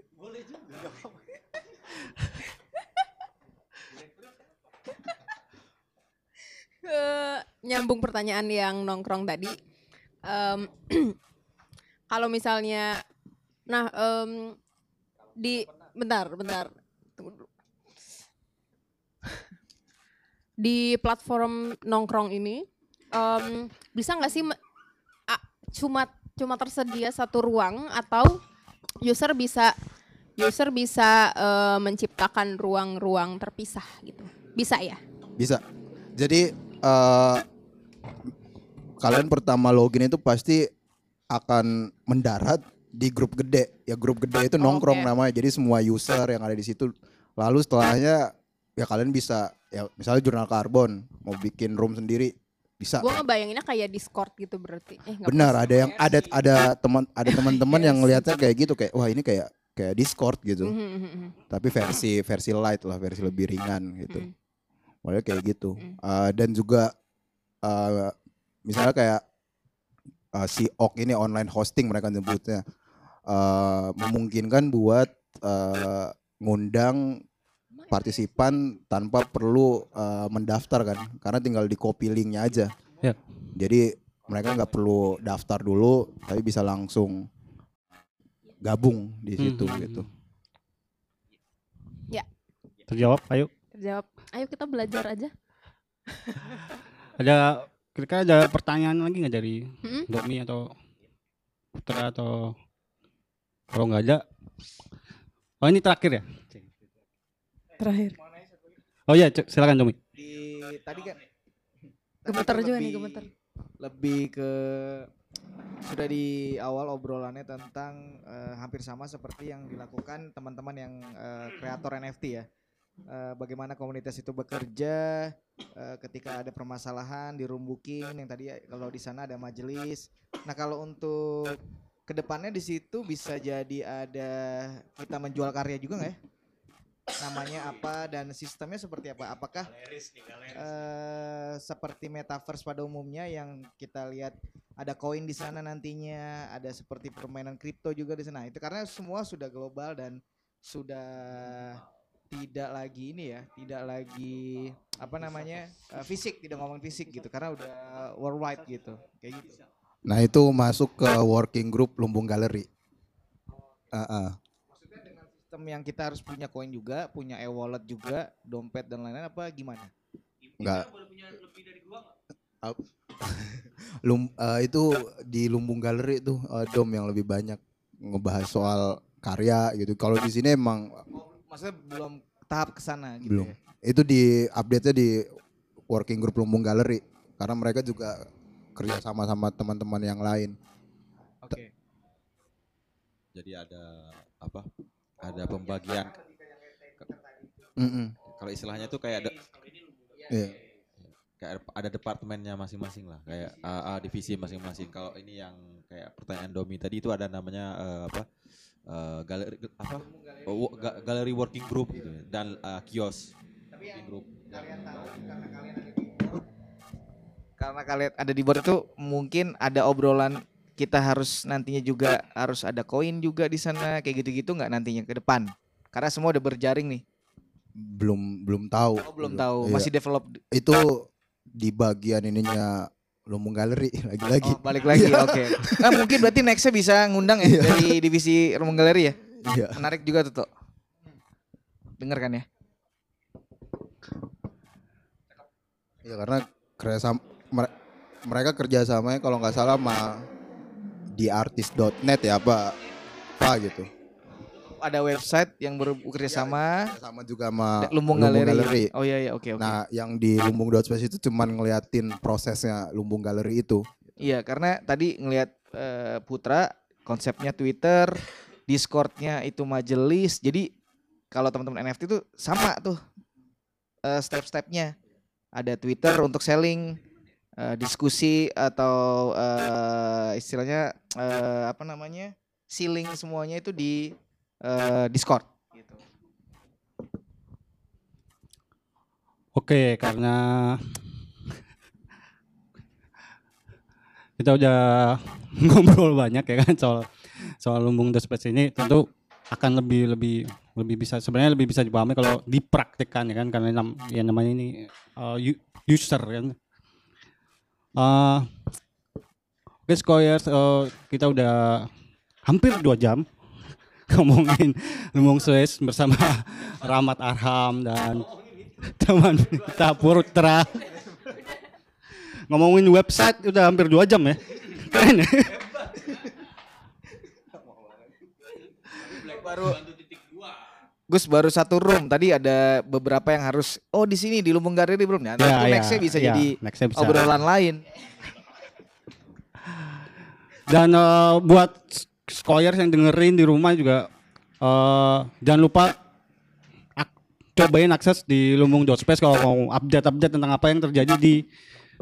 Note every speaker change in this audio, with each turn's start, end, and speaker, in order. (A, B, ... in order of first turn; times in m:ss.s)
0:06.8-0:09.6 A
0:10.3-0:11.2 A
0:12.1-0:13.0 A
0:13.7-0:14.6 A
0:15.4-0:17.4 A
0:20.6-0:24.6 A
0:25.3-0:28.4 A
0:29.0-0:29.7 A
0:30.4-0:35.0 A
0:35.4-0:35.6 B
0:36.2-0:37.4 B
0:39.0-0:40.7 B
0:41.3-0:53.2 B
0:44.6-0:45.1 A
0:53.0-0:56.3 A
0:55.2-1:00.7 B
0:57.3-0:58.2 A
1:00.6-1:01.3 A
1:01.5-1:04.3 B
1:05.0-1:06.9 B
1:07.6-1:08.1 B
1:08.7-1:09.2 B
1:10.3-1:12.6 B
1:13.3-1:17.2 B
1:17.9-1:22.7 B
1:23.6-1:27.3 B
1:28.6-1:30.1 B
1:29.4-1:30.0 C
1:32.9-1:33.5 C
1:33.7-1:35.3 A
1:36.2-1:36.5 A
1:37.2-1:40.7 C
1:41.8-1:42.6 C
1:43.7-1:44.2 C
1:45.6-1:46.4 C
1:47.8-1:48.2 A
1:49.1-1:50.0 C
1:50.1-1:51.2 D
1:52.2-1:53.3 D
1:52.3-1:53.3 A
1:53.8-1:55.1 D
1:55.8-2:02.5 D
2:03.0-2:16.2 D
2:17.2-2:19.7 D
2:20.4-2:39.6 D
2:40.0-2:42.7 B
2:43.9-2:44.4 B
2:44.8-2:49.9 D
2:50.6-2:51.0 B
2:52.6-3:00.9 B
3:01.1-3:03.6 D
3:03.2-3:05.2 B
3:05.9-3:10.6 B
3:11.4-3:11.7 D
3:13.3-3:14.7 E
3:15.2-3:16.2 E
3:17.8-3:18.2 B
3:18.2-3:19.5 E
3:20.3-3:20.6 B
3:21.4-3:28.3 E
3:28.9-3:33.3 E
3:33.9-3:34.6 E
3:34.5-3:36.3 D
3:37.6-3:47.0 D
3:47.8-3:49.9 B
3:49.0-3:50.4 D
3:50.5-3:56.2 B
3:54.4-3:59.2 D
3:57.4-3:58.0 B
3:59.4-3:59.8 B
3:59.7-4:00.5 D
4:02.0-4:02.4 D
4:06.0-4:07.7 B
4:08.3-4:10.3 B
4:11.1-4:12.8 B
4:13.4-4:13.9 B
4:14.8-4:16.9 D
4:16.3-4:18.9 B
4:17.8-4:19.8 D
4:19.6-4:24.2 B
4:24.2-4:30.7 D
4:31.3-4:33.0 D
4:34.0-4:34.9 D
4:35.6-4:37.0 D
4:37.6-4:46.0 D
4:49.6-4:50.8 C
4:54.4-5:06.6 C
5:08.0-5:08.5 C
5:09.9-5:11.9 C
5:12.5-5:13.3 C
5:14.1-5:20.8 C
5:22.5-5:25.6 C
5:29.3-5:29.8 D
5:31.1-5:37.8 D
5:35.4-5:37.4 C
5:40.7-5:44.1 C
5:44.6-5:45.9 C
5:47.0-5:51.4 C